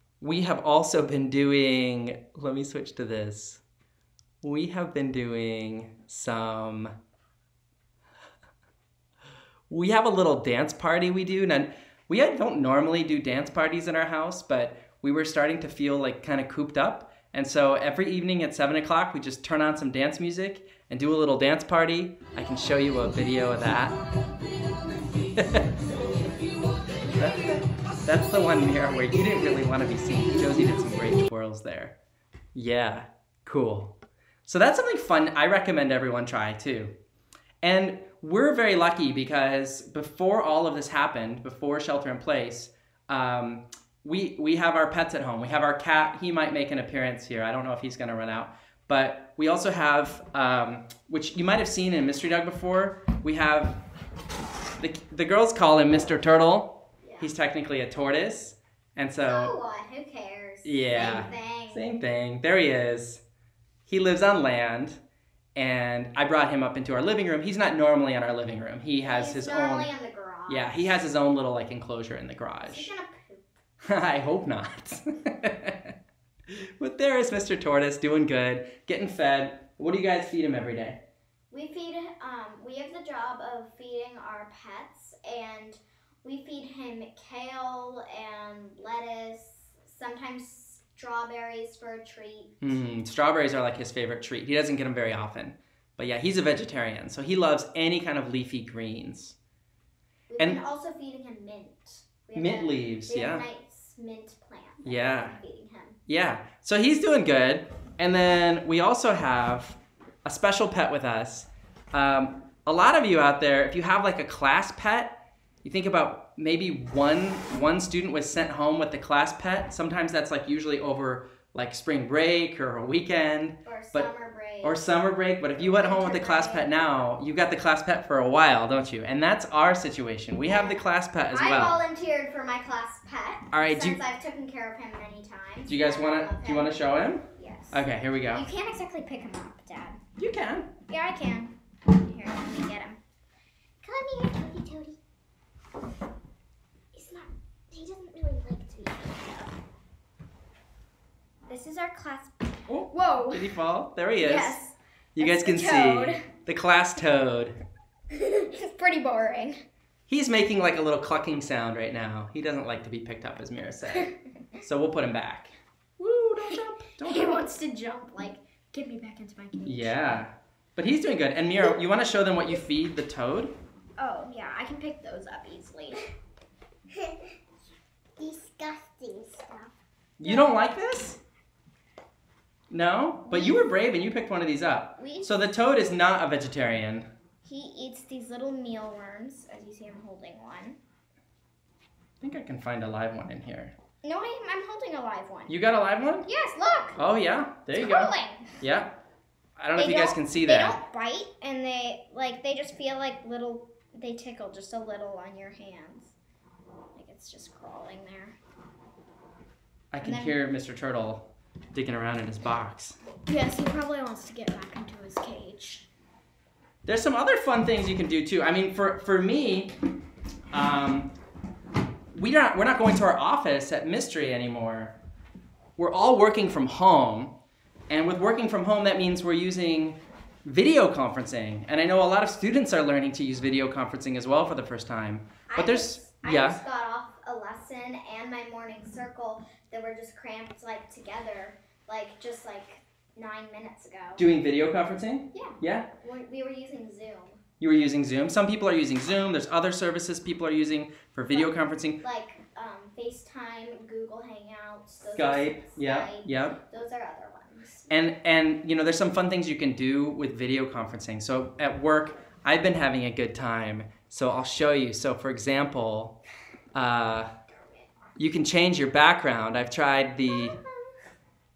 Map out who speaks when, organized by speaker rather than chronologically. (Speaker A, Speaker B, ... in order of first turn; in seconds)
Speaker A: 0.2-3.6, 4.4-6.9, 9.7-24.0, 25.4-25.7, 27.1-31.9, 32.5-37.0, 37.6-53.8, 54.8-59.5, 60.6-63.2, 63.9-65.0, 65.6-69.9, 70.5-72.9, 73.8-75.9, 76.5-81.0, 92.6-99.4, 102.3-103.5, 104.8-105.4, 106.1-124.1, 124.6-131.8, 133.5-134.0, 135.7-138.4, 140.2-140.7, 152.7-154.6, 155.2-157.6, 160.1-167.4, 169.7-173.5, 180.2-181.2, 182.7-187.1, 192.2-193.7, 195.5-196.3, 197.0-199.0, 199.6-200.8, 209.9-213.0, 216.9-219.7, 220.5-221.1, 222.1-225.0, 225.8-227.4, 227.9-236.6, 244.2-245.9, 247.6-252.0, 255.0-256.6, 257.9-266.2, 266.7-267.3, 268.2-270.6
Speaker B: 57.0-57.3, 59.2-61.9, 69.0-71.0, 72.7-73.5, 81.5-92.8, 100.3-106.0, 123.7-124.8, 125.6-126.7, 130.4-136.8, 137.4-140.0, 140.9-143.0, 143.8-145.0, 146.9-149.5, 151.5-153.5, 154.2-156.3, 158.1-159.6, 166.5-170.1, 174.0-176.1, 177.0-177.2, 178.2-179.7, 180.2-180.6, 183.3-183.7, 185.0-185.5, 187.4-190.8, 194.0-195.6, 196.3-197.0, 197.7-198.5, 199.8-206.1, 206.9-208.4, 210.0-210.4, 213.3-215.9, 235.5-244.3, 245.3-247.4, 251.3-257.9, 267.5-267.9, 270.3-270.9